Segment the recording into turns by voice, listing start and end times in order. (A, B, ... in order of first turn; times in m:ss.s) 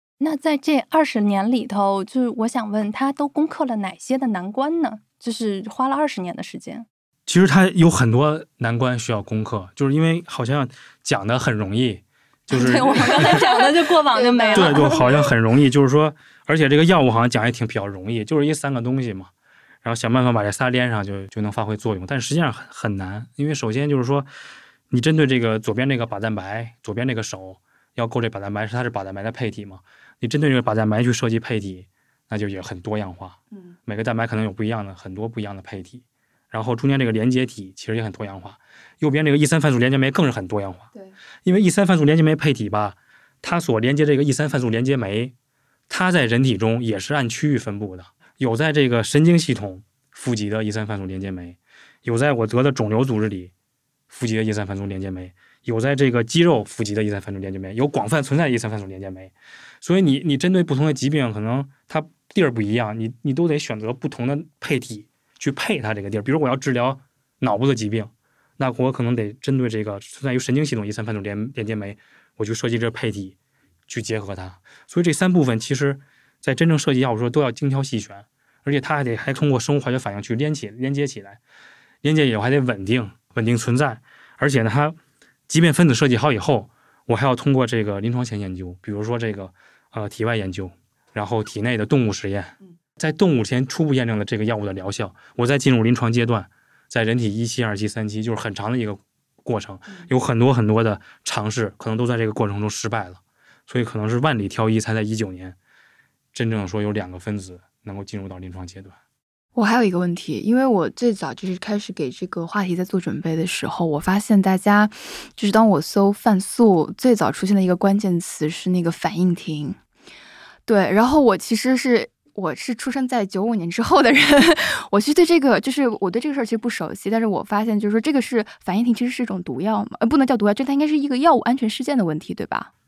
0:00.2-0:06.8 A
0:07.3-0:13.4 B
0:12.5-0:15.2 A
0:12.6-0:13.5 C
0:14.1-0:15.2 C
0:14.5-0:19.3 B
0:19.8-0:24.3 B
0:24.9-0:40.9 B
0:41.4-0:45.3 B
0:45.9-0:53.5 B
0:54.1-1:13.4 B
1:13.9-1:21.4 B
1:22.0-1:25.0 B
1:25.5-1:45.6 B
1:46.3-1:48.9 B
1:49.5-1:59.8 C
2:00.7-2:12.7 C